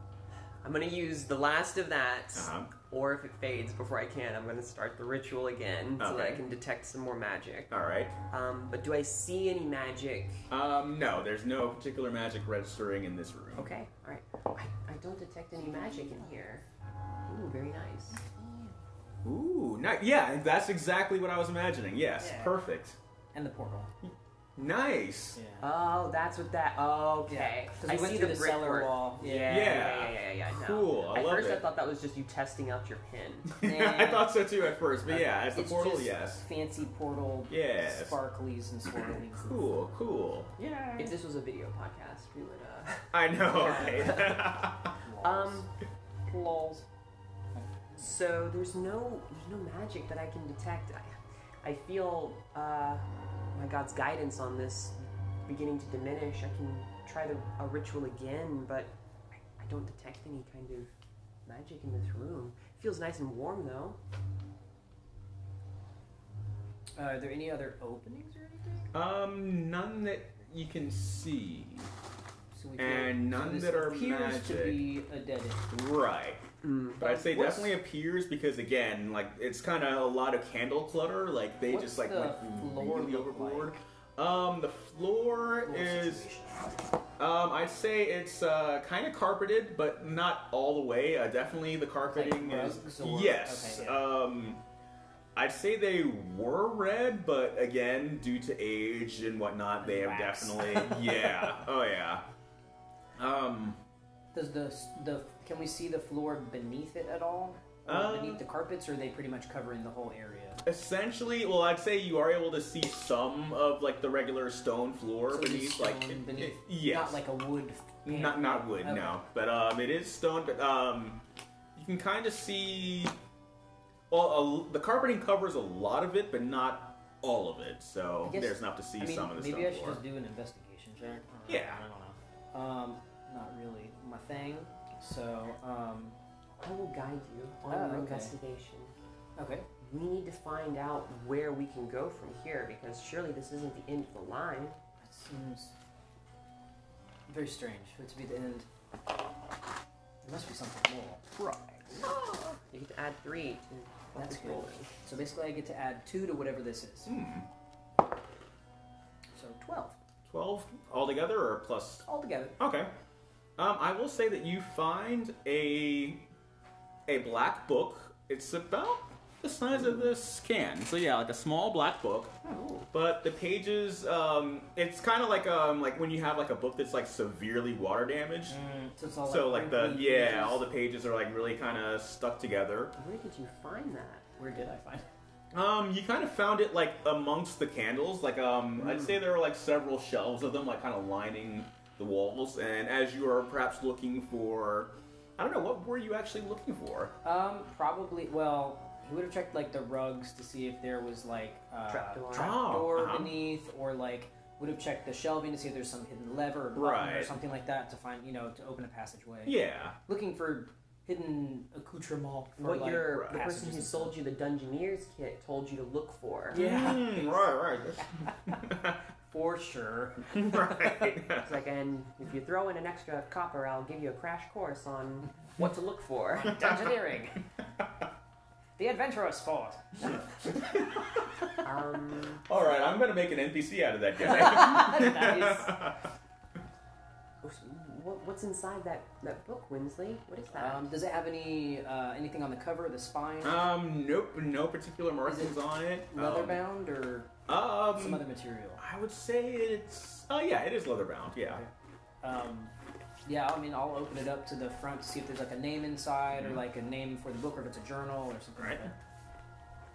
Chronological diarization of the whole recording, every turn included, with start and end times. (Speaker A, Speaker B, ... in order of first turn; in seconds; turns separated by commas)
Speaker A: 0.6-7.7, Speaker B: 2.3-2.7, Speaker B: 6.0-6.4, Speaker B: 7.7-8.2, Speaker A: 8.3-10.5, Speaker B: 10.5-13.7, Speaker A: 13.5-16.6, Speaker A: 17.3-18.2, Speaker C: 18.1-18.8, Speaker B: 19.2-23.0, Speaker C: 22.2-22.6, Speaker C: 23.3-23.9, Speaker B: 24.6-25.4, Speaker C: 25.3-25.6, Speaker A: 25.6-33.5, Speaker C: 27.3-29.8, Speaker B: 29.5-31.6, Speaker B: 33.5-36.4, Speaker C: 33.6-34.4, Speaker C: 35.0-39.6, Speaker B: 37.5-38.2, Speaker B: 39.4-40.5, Speaker C: 40.6-41.1, Speaker A: 41.0-44.7, Speaker B: 43.1-45.0, Speaker C: 43.5-44.2, Speaker C: 45.0-45.6, Speaker A: 45.2-45.7, Speaker C: 46.3-46.9, Speaker C: 47.5-48.1, Speaker A: 48.0-55.0, Speaker A: 55.5-58.9, Speaker A: 59.6-60.9, Speaker A: 61.5-64.0, Speaker C: 67.0-68.9, Speaker B: 68.9-71.9, Speaker C: 72.5-75.7, Speaker B: 72.8-74.8, Speaker B: 75.7-76.4, Speaker A: 76.6-77.6, Speaker B: 77.0-86.3, Speaker C: 77.3-77.7, Speaker C: 81.7-83.8, Speaker C: 85.7-86.7, Speaker B: 87.2-94.6, Speaker C: 92.0-94.1, Speaker B: 95.3-102.2, Speaker C: 99.8-101.4, Speaker B: 103.2-103.8, Speaker C: 104.3-110.6, Speaker B: 107.8-108.4, Speaker B: 110.6-117.2, Speaker C: 115.3-119.2, Speaker B: 118.0-121.2, Speaker B: 121.7-123.2, Speaker B: 124.1-130.0, Speaker C: 128.2-136.2, Speaker B: 131.5-131.8, Speaker A: 136.6-138.9, Speaker C: 137.7-138.3, Speaker C: 139.4-139.7, Speaker A: 139.8-144.8, Speaker C: 145.0-145.7, Speaker C: 147.3-148.7, Speaker C: 150.2-151.2, Speaker B: 151.3-152.0, Speaker A: 152.0-154.9, Speaker C: 154.1-157.1, Speaker B: 157.1-157.5, Speaker C: 159.3-160.0, Speaker B: 160.3-162.0, Speaker C: 162.0-162.6, Speaker B: 162.6-162.9, Speaker B: 163.6-166.3, Speaker B: 167.1-172.4, Speaker C: 172.4-172.8, Speaker A: 172.5-172.8, Speaker B: 172.9-178.6, Speaker C: 178.5-180.6, Speaker B: 179.2-182.9, Speaker A: 182.9-184.2, Speaker C: 184.4-185.0, Speaker B: 185.5-197.1, Speaker A: 188.8-189.2, Speaker C: 197.2-214.2, Speaker A: 201.9-203.2, Speaker B: 202.3-203.4, Speaker B: 206.7-207.3, Speaker B: 209.4-210.0, Speaker A: 212.6-216.6, Speaker B: 213.1-213.4, Speaker B: 216.5-219.0, Speaker C: 216.5-218.6, Speaker C: 219.3-220.9, Speaker B: 220.3-221.5, Speaker A: 221.3-226.8, Speaker C: 226.4-227.4, Speaker C: 228.8-230.8, Speaker A: 231.6-232.5, Speaker B: 232.4-236.0, Speaker C: 234.2-235.8, Speaker A: 237.4-240.9, Speaker C: 240.5-243.7, Speaker B: 243.4-246.6, Speaker C: 245.2-247.3, Speaker B: 247.5-248.3, Speaker C: 247.9-248.8, Speaker B: 248.8-251.6, Speaker C: 252.2-252.7, Speaker C: 253.2-258.9, Speaker B: 256.4-256.6, Speaker B: 258.6-258.9